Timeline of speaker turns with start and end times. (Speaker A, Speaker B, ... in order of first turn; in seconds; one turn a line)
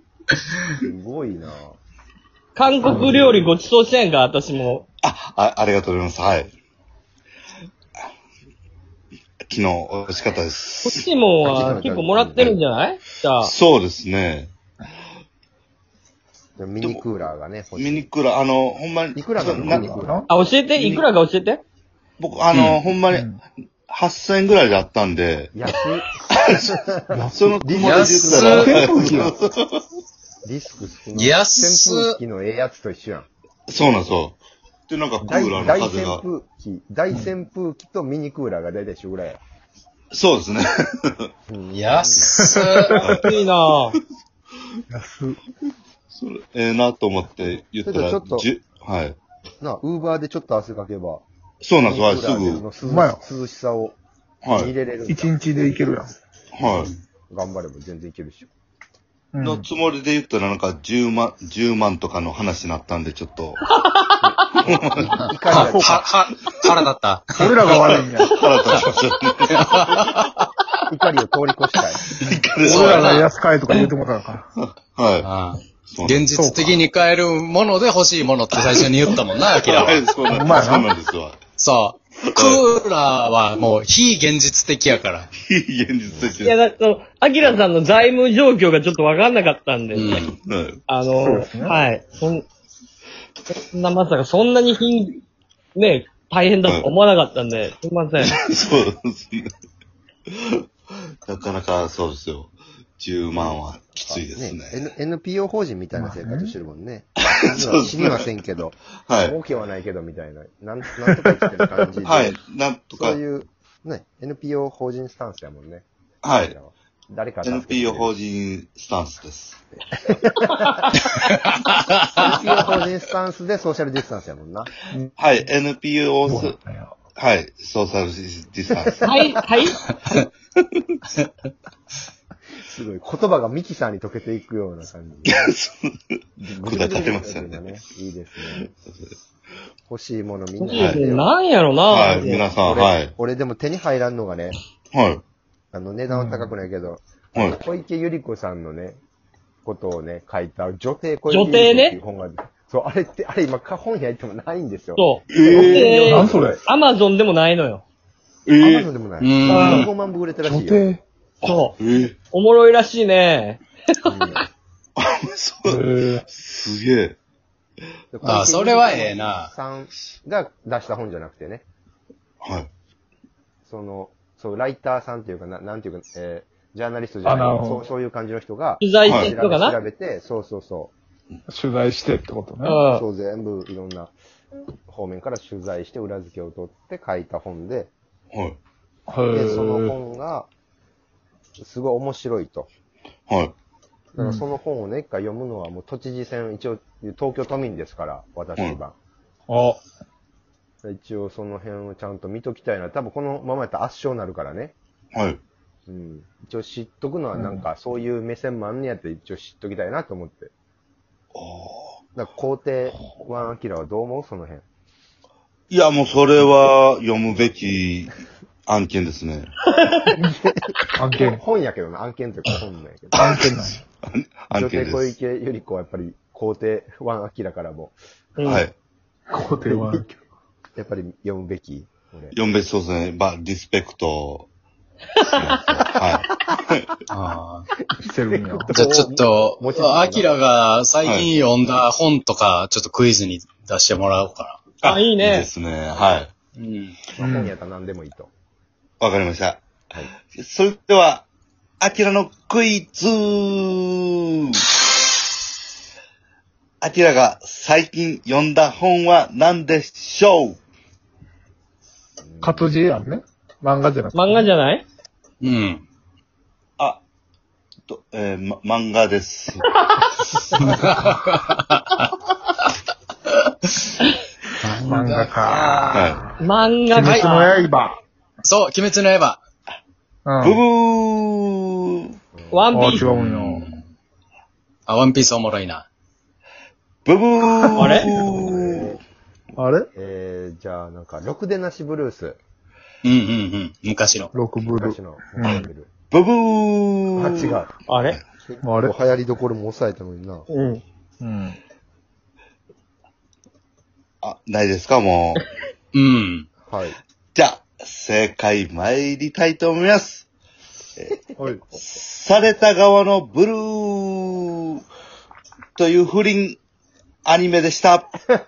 Speaker A: 0.8-1.8
Speaker B: 2.5-4.8
Speaker A: 2.9-3.4
Speaker C: 5.0-6.5
Speaker C: 9.5-11.1
Speaker B: 10.8-13.5
Speaker A: 11.4-12.5
Speaker C: 13.4-14.5
Speaker A: 16.6-18.1
Speaker C: 17.8-20.0
Speaker A: 19.1-20.3
Speaker D: 19.4-20.3
Speaker B: 20.3-21.6
Speaker C: 20.8-21.1
Speaker C: 22.2-23.3
Speaker E: 22.5-22.8
Speaker D: 23.1-23.4
Speaker C: 23.9-25.6
Speaker A: 25.6-28.8
Speaker C: 26.3-26.5
Speaker D: 27.1-27.5
Speaker C: 27.3-29.8
Speaker E: 27.8-28.8
Speaker D: 28.5-29.4
Speaker A: 30.4-33.3
Speaker E: 31.1-32.2
Speaker C: 33.7-36.2
Speaker A: 35.3-39.4
Speaker C: 40.1-41.3
Speaker A: 41.5-42.4
Speaker E: 41.7-43.0
Speaker D: 42.3-43.0
Speaker B: 42.9-44.0
Speaker C: 43.0-43.3
Speaker D: 44.9-45.4
Speaker C: 46.1-49.2
Speaker A: 47.8-48.5
Speaker A: 49.6-51.2
Speaker C: 51.6-52.7
Speaker A: 51.8-54.0
Speaker D: 52.8-53.2
Speaker C: 54.4-54.7
Speaker A: 54.5-55.4
Speaker D: 55.1-56.1
Speaker C: 56.5-56.9
Speaker E: 56.6-57.0
Speaker A: 57.3-58.5
Speaker D: 59.3-59.7
Speaker C: 59.4-63.6
Speaker B: 63.8-64.2
Speaker A: 64.2-66.1
Speaker C: 64.6-65.2
Speaker E: 65.5-68.0
Speaker D: 65.6-66.1
Speaker D: 67.4-68.4
Speaker C: 68.2-70.2
Speaker E: 69.5-70.3
Speaker A: 70.9-72.0
Speaker C: 72.2-73.2
Speaker E: 72.6-73.3
Speaker D: 72.6-74.5
Speaker C: 74.6-75.3
Speaker E: 75.2-80.1
Speaker C: 75.9-76.3
Speaker D: 76.3-76.8
Speaker C: 79.6-81.4
Speaker D: 80.3-80.9
Speaker E: 81.6-85.3
Speaker C: 82.3-82.7
Speaker C: 85.4-86.6
Speaker A: 86.1-86.3
Speaker B: 86.4-90.3
Speaker E: 89.9-90.3
Speaker C: 90.0-90.8
Speaker B: 90.9-92.5
Speaker D: 91.2-91.8
Speaker B: 93.5-95.2
Speaker B: 95.8-98.4
Speaker C: 98.2-99.5
Speaker C: 100.3-100.7
Speaker C: 101.3-104.8
Speaker A: 103.3-112.4
Speaker D: 106.0-106.5
Speaker C: 107.3-108.3
Speaker C: 109.0-109.4
Speaker C: 112.0-113.2
Speaker A: 112.9-115.8
Speaker C: 116.2-116.6
Speaker A: 116.4-118.1
Speaker C: 117.4-119.6
Speaker A: 120.1-120.5
Speaker E: 121.0-122.5
Speaker A: 122.2-124.8
Speaker C: 125.2-126.6
Speaker D: 126.3-126.9
Speaker C: 127.2-129.1
Speaker A: 128.7-129.1
Speaker B: 129.0-129.8
Speaker C: 130.6-131.0
Speaker A: 132.7-135.5
Speaker C: 135.3-137.6
Speaker A: 136.4-138.7
Speaker C: 138.7-139.1
Speaker A: 139.9-141.3
Speaker B: 140.6-142.4
Speaker C: 140.8-141.0
Speaker C: 141.9-143.1
Speaker A: 142.3-144.6
Speaker C: 144.9-145.2
Speaker A: 145.7-149.0
Speaker D: 146.1-146.6
Speaker A: 149.7-156.4
Speaker B: 151.3-152.0
Speaker B: 155.0-157.8
Speaker C: 155.3-156.0
Speaker D: 155.7-156.6
Speaker C: 158.5-158.9
Speaker A: 158.6-160.8
Speaker E: 159.2-159.9
Speaker B: 159.5-159.9
Speaker D: 160.4-161.0
Speaker B: 161.4-161.8
Speaker C: 161.4-162.2
Speaker B: 162.3-164.4
Speaker A: 164.1-164.4
Speaker C: 165.0-167.2
Speaker D: 165.7-166.2
Speaker A: 168.1-171.6
Speaker E: 168.2-169.5
Speaker C: 172.4-172.7
Speaker A: 173.7-180.9
Speaker D: 177.2-177.9
Speaker B: 178.8-179.8
Speaker C: 179.1-179.3
Speaker D: 181.5-182.8
Speaker B: 182.6-183.0
Speaker A: 182.9-184.1
Speaker A: 184.9-187.9
Speaker C: 188.3-188.6
Speaker D: 189.1-190.0
Speaker A: 189.3-190.5
Speaker A: 191.6-192.7
Speaker C: 193.3-193.5
Speaker A: 194.2-198.9
Speaker D: 194.2-194.5
Speaker D: 199.5-199.8
Speaker A: 200.8-204.7
Speaker C: 205.1-205.4
Speaker A: 205.9-210.5
Speaker D: 207.3-207.6
Speaker C: 211.3-212.0
Speaker A: 212.2-214.6
Speaker C: 215.7-218.2
Speaker C: 218.7-219.5
Speaker B: 219.7-220.0
Speaker A: 220.2-223.2
Speaker D: 221.0-221.4
Speaker C: 223.1-225.2
Speaker D: 223.2-223.8
Speaker A: 224.5-228.0
Speaker B: 228.4-228.7
Speaker C: 228.4-228.7
Speaker D: 229.3-230.2
Speaker A: 229.6-230.0
Speaker A: 230.8-232.4
Speaker C: 232.3-234.5
Speaker C: 235.3-236.9
Speaker E: 237.1-237.7
Speaker D: 238.0-238.8
Speaker A: 238.1-240.4
Speaker E: 238.7-244.6
Speaker C: 241.0-241.3
Speaker C: 244.8-246.3
Speaker B: 244.8-245.5
Speaker E: 246.6-247.0
Speaker A: 247.2-248.3
Speaker D: 247.2-247.5
Speaker C: 249.0-249.6
Speaker C: 250.3-251.3
Speaker C: 251.8-254.7
Speaker C: 256.8-260.6
Speaker A: 262.2-262.7
Speaker D: 262.4-264.4
Speaker B: 264.1-264.8
Speaker E: 265.4-265.8
Speaker C: 267.9-269.7
Speaker B: 269.9-270.3
Speaker E: 270.6-272.1
Speaker E: 274.6-276.1
Speaker D: 274.8-276.3
Speaker C: 275.9-276.2
Speaker B: 276.4-277.6
Speaker D: 276.9-278.0
Speaker E: 277.0-277.3
Speaker E: 278.4-279.4
Speaker D: 280.3-280.6
Speaker C: 280.4-282.0
Speaker A: 282.4-282.7
Speaker B: 282.5-283.1
Speaker D: 282.7-283.7
Speaker E: 282.9-283.8
Speaker E: 284.9-285.9
Speaker C: 287.1-289.0
Speaker D: 287.6-288.0
Speaker B: 287.8-288.1
Speaker A: 288.0-289.0
Speaker D: 289.6-289.9
Speaker A: 289.9-292.4
Speaker E: 293.0-294.3
Speaker D: 294.3-295.7
Speaker A: 294.6-295.9
Speaker C: 295.4-297.5
Speaker A: 297.2-297.7
Speaker B: 297.9-298.2
Speaker A: 298.5-300.5
Speaker D: 298.6-298.9
Speaker B: 300.5-300.8
Speaker D: 301.2-301.6
Speaker C: 304.2-305.4
Speaker E: 305.9-306.5
Speaker A: 306.7-307.0
Speaker C: 307.4-310.3
Speaker D: 311.4-311.6
Speaker C: 311.8-314.8
Speaker C: 315.8-316.6
Speaker C: 317.3-318.1